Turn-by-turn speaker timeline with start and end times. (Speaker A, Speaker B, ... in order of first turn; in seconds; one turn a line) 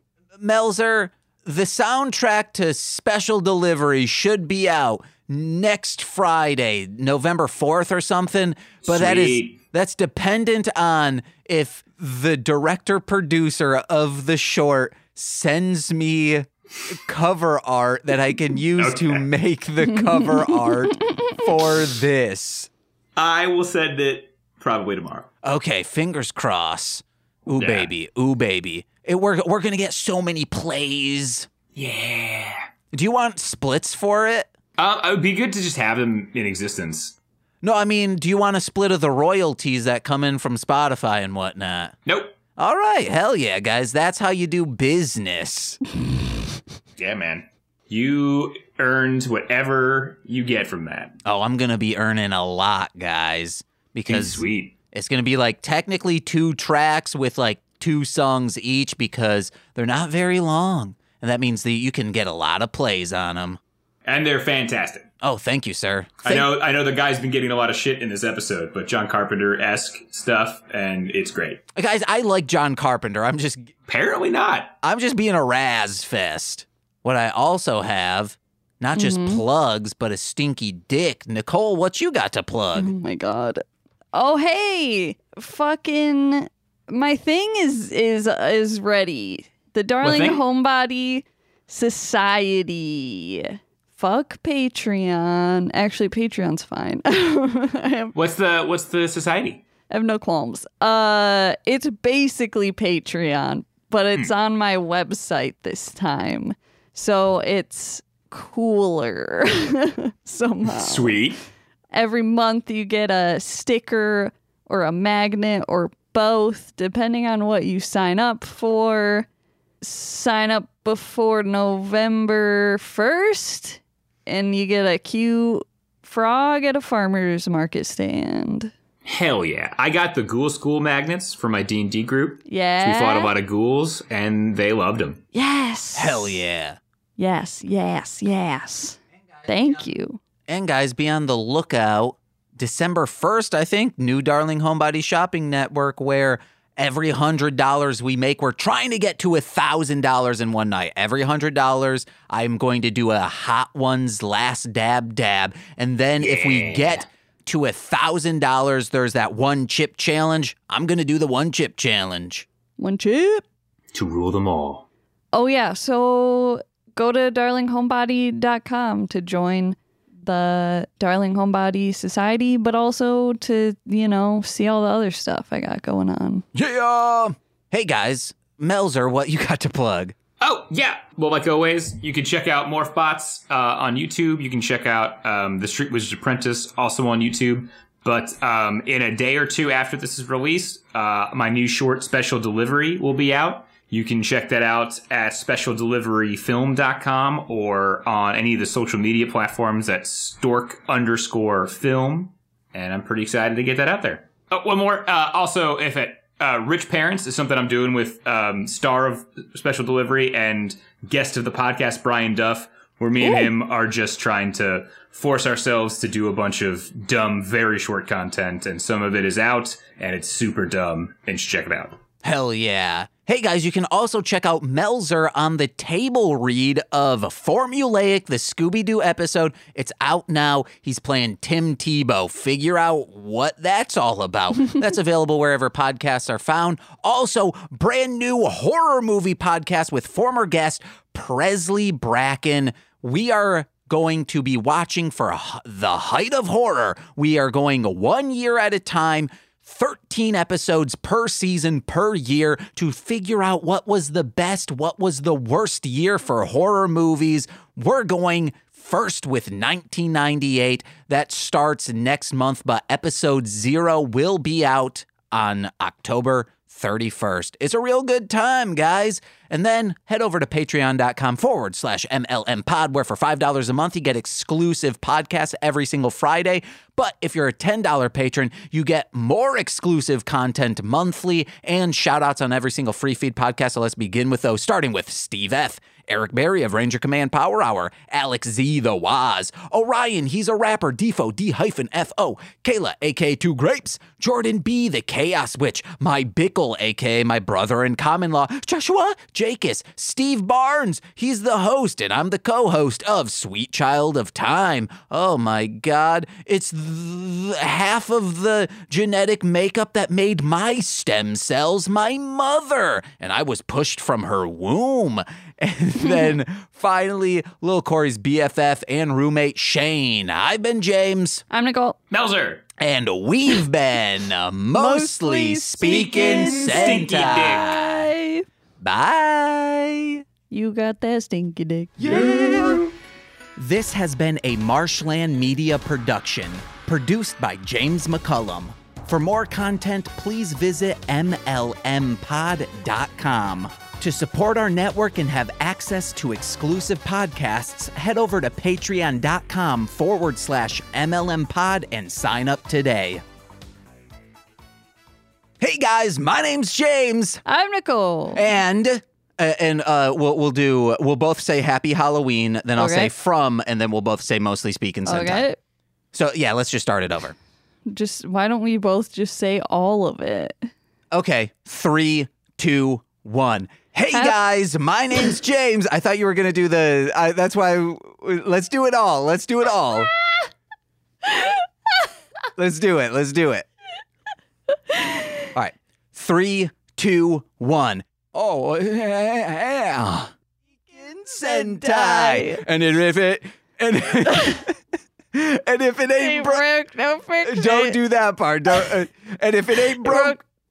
Speaker A: 0.4-22.7
Speaker B: 8.8-9.6
Speaker B: 18.8-19.2
Speaker C: 19.9-21.3
Speaker B: 23.2-25.3
Speaker A: 25.4-31.5
Speaker B: 27.6-27.9
Speaker B: 31.8-32.6
Speaker A: 32.9-34.5
Speaker B: 34.8-37.1
Speaker A: 37.6-41.9
Speaker B: 42.1-42.4
Speaker A: 42.6-45.8
Speaker B: 47.0-51.2
Speaker A: 51.2-63.6
Speaker B: 54.1-54.8
Speaker B: 64.0-65.0
Speaker A: 65.2-66.5
Speaker B: 66.2-71.6
Speaker A: 71.8-73.7
Speaker B: 73.9-74.7
Speaker A: 74.8-82.9
Speaker C: 79.0-79.4
Speaker C: 82.8-98.1
Speaker B: 90.0-90.4
Speaker B: 98.1-99.6
Speaker C: 99.9-111.2
Speaker B: 110.7-111.4
Speaker C: 111.9-119.3
Speaker C: 119.8-128.7
Speaker B: 129.1-135.2
Speaker C: 132.5-133.3
Speaker C: 135.3-136.4
Speaker A: 135.9-136.8
Speaker C: 137.2-140.2
Speaker A: 139.5-139.8
Speaker A: 140.5-162.5
Speaker B: 156.2-157.1
Speaker C: 162.8-163.4
Speaker B: 163.9-164.9
Speaker C: 165.3-176.4
Speaker A: 176.5-180.2
Speaker B: 180.4-222.0
Speaker C: 213.2-213.5
Speaker A: 222.2-321.4
Speaker C: 321.5-322.0
Speaker B: 322.1-322.6
Speaker A: 322.8-328.1
Speaker C: 324.8-328.5
Speaker B: 325.9-327.7
Speaker A: 328.8-330.2
Speaker C: 330.5-332.9
Speaker A: 332.0-332.9
Speaker A: 333.6-353.2
Speaker A: 355.6-357.4
Speaker C: 357.4-358.5
Speaker A: 358.4-365.4
Speaker C: 362.8-363.1
Speaker C: 365.1-365.6
Speaker A: 366.1-367.4
Speaker C: 367.9-370.7
Speaker A: 371.1-380.1
Speaker C: 381.2-381.5
Speaker A: 382.6-383.7
Speaker C: 384.9-385.4
Speaker A: 385.6-390.3
Speaker A: 390.9-394.8
Speaker C: 391.4-392.6
Speaker A: 395.3-396.6
Speaker C: 396.2-398.0
Speaker A: 397.4-400.4
Speaker C: 400.0-400.4